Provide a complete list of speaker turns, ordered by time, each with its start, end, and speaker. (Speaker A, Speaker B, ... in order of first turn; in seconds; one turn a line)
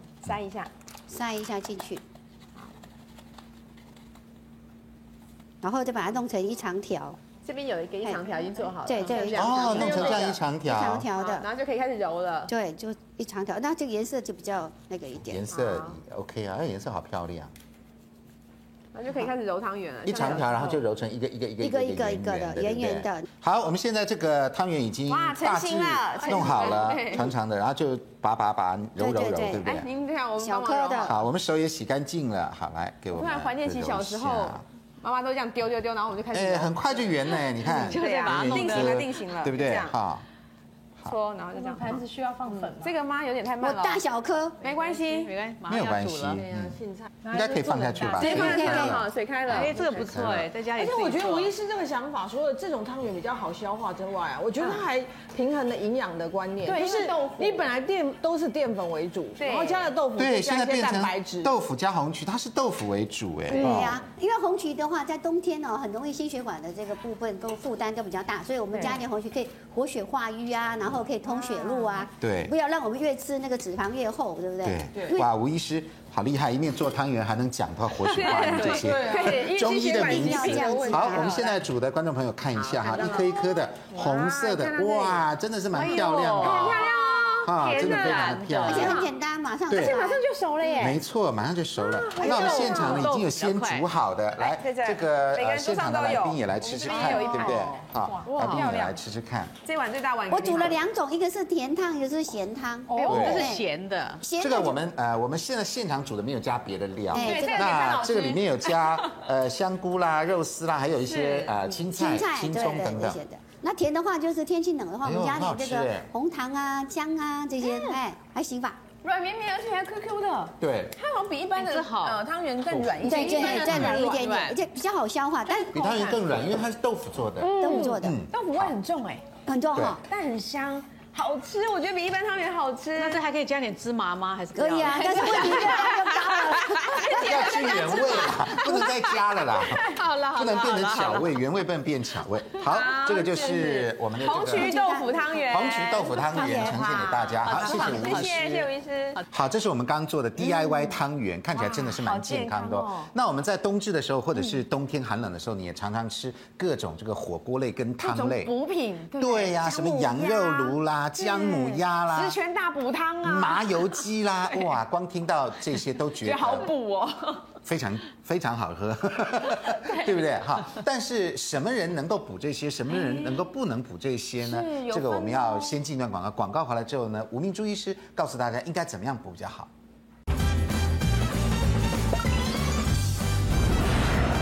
Speaker A: 0.2-0.7
Speaker B: 1.1-2.0
Speaker B: 5.6-7.2
Speaker A: 7.4-10.4
Speaker B: 8.8-11.5
Speaker C: 9.3-11.1
Speaker A: 11.1-12.5
Speaker B: 12.5-15.4
Speaker C: 15.2-17.5
Speaker A: 15.5-16.0
Speaker A: 18.9-20.8
Speaker C: 20.0-29.9
Speaker B: 21.6-23.3
Speaker A: 25.1-27.3
Speaker B: 29.0-29.7
Speaker A: 29.6-31.2
Speaker B: 30.4-31.1
Speaker C: 31.0-34.6
Speaker A: 33.1-39.9
Speaker C: 36.3-40.2
Speaker D: 37.8-39.0
Speaker A: 41.0-44.0
Speaker D: 41.8-42.6
Speaker B: 43.6-44.6
Speaker A: 44.6-45.3
Speaker D: 44.8-46.4
Speaker C: 45.6-50.5
Speaker E: 46.3-47.2
Speaker A: 48.0-50.3
Speaker D: 48.2-48.5
Speaker B: 48.2-49.0
Speaker D: 49.5-51.5
Speaker E: 50.7-61.5
Speaker A: 56.6-57.7
Speaker A: 59.4-59.9
Speaker C: 60.1-64.0
Speaker B: 63.5-75.3
Speaker A: 63.5-63.9
Speaker A: 71.3-72.1
Speaker C: 72.2-72.5
Speaker C: 74.6-89.0
Speaker A: 78.0-81.6
Speaker E: 78.7-79.3
Speaker B: 80.0-81.3
Speaker A: 82.5-89.1
Speaker D: 85.8-89.0
Speaker B: 88.6-90.2
Speaker C: 89.7-90.0
Speaker A: 89.7-91.0
Speaker C: 90.8-99.5
Speaker A: 91.8-93.1
Speaker D: 92.2-93.8
Speaker A: 94.4-99.0
Speaker D: 97.0-97.6
Speaker D: 98.3-98.7
Speaker A: 99.6-100.8
Speaker B: 100.3-103.7
Speaker D: 102.9-104.2
Speaker A: 102.9-103.4
Speaker C: 103.1-103.5
Speaker B: 104.2-104.8
Speaker C: 104.4-113.2
Speaker B: 107.1-107.9
Speaker A: 107.1-108.5
Speaker A: 111.0-111.6
Speaker B: 111.9-118.8
Speaker C: 115.0-116.1
Speaker A: 117.6-118.0
Speaker A: 119.0-124.2
Speaker C: 120.6-121.0
Speaker D: 121.5-122.2
Speaker B: 123.0-125.8
Speaker D: 123.1-124.6
Speaker A: 125.5-126.2
Speaker C: 125.7-128.7
Speaker A: 127.4-129.2
Speaker B: 127.6-128.2
Speaker B: 129.5-130.0
Speaker A: 130.1-133.2
Speaker D: 132.9-136.6
Speaker B: 134.6-137.5
Speaker A: 134.9-136.1
Speaker A: 136.8-138.9
Speaker C: 137.1-144.8
Speaker A: 139.6-140.5
Speaker D: 140.0-141.2
Speaker A: 142.6-149.2
Speaker B: 144.5-145.3
Speaker C: 145.4-148.7
Speaker D: 146.3-148.3
Speaker C: 149.3-158.5
Speaker A: 150.4-150.9
Speaker A: 151.5-153.1
Speaker A: 158.0-164.1
Speaker C: 159.2-162.4
Speaker C: 163.2-166.7
Speaker A: 166.2-167.5
Speaker C: 167.6-179.7
Speaker A: 172.9-173.3
Speaker A: 174.4-175.8